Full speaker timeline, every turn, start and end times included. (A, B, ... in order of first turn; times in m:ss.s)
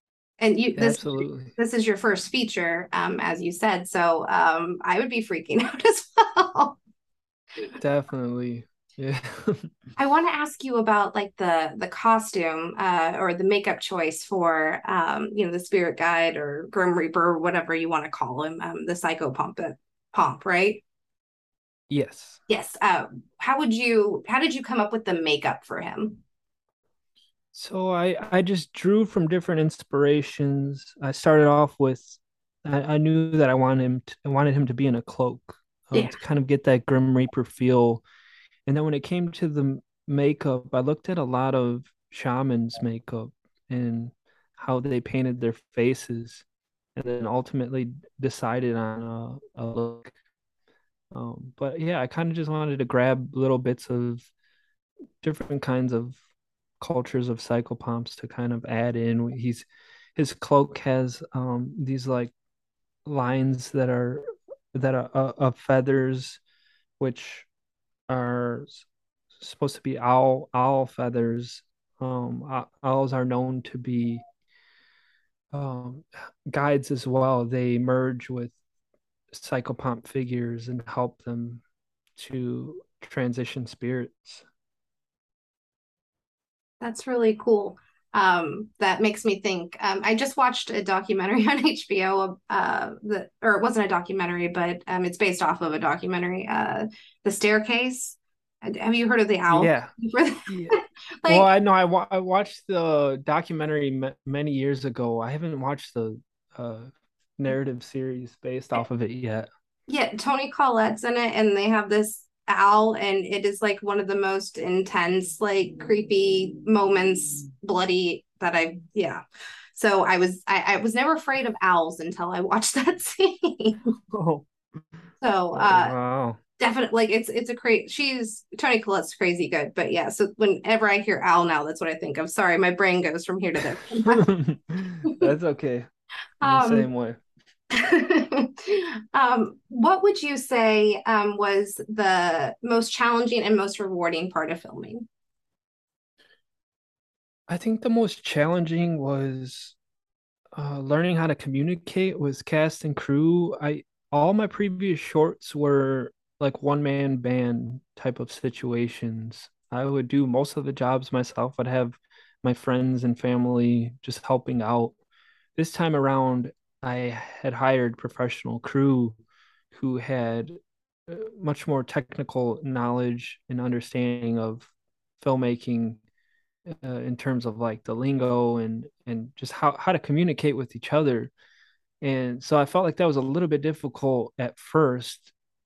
0:00.4-0:06.8 A
0:00.8-0:01.5 B
0:07.8-0:09.7 B
0:10.0-0:20.8 A
0:21.9-0:22.4 B
0:22.5-0:26.2 A
0:27.5-0:38.0 B
0:38.7-0:46.4 B
0:47.0-0:50.1 B
0:51.1-0:54.3 B
0:55.2-0:56.2 B
0:56.8-1:02.3 B
1:03.0-1:06.4 B
1:07.0-1:07.5 B
1:08.1-1:08.8 B
1:09.4-1:14.2 B
1:15.5-1:18.5 B
1:19.3-1:21.6 B
1:22.2-1:24.4 B
1:26.8-1:41.5 A
1:39.5-1:39.9 B
1:40.5-1:49.5 B
1:49.9-2:03.8 A
2:04.1-2:04.4 B
2:05.2-2:05.9 A
2:05.5-2:06.4 B
2:06.6-2:14.3 A
2:14.0-2:15.9 B
2:16.4-2:17.2 B
2:16.4-2:16.9 A
2:17.7-2:25.0 A
2:27.5-2:29.7 B
2:30.5-2:44.9 B
2:45.6-2:49.2 B
2:49.7-2:56.0 B
2:56.7-3:01.3 B
3:02.0-3:05.3 B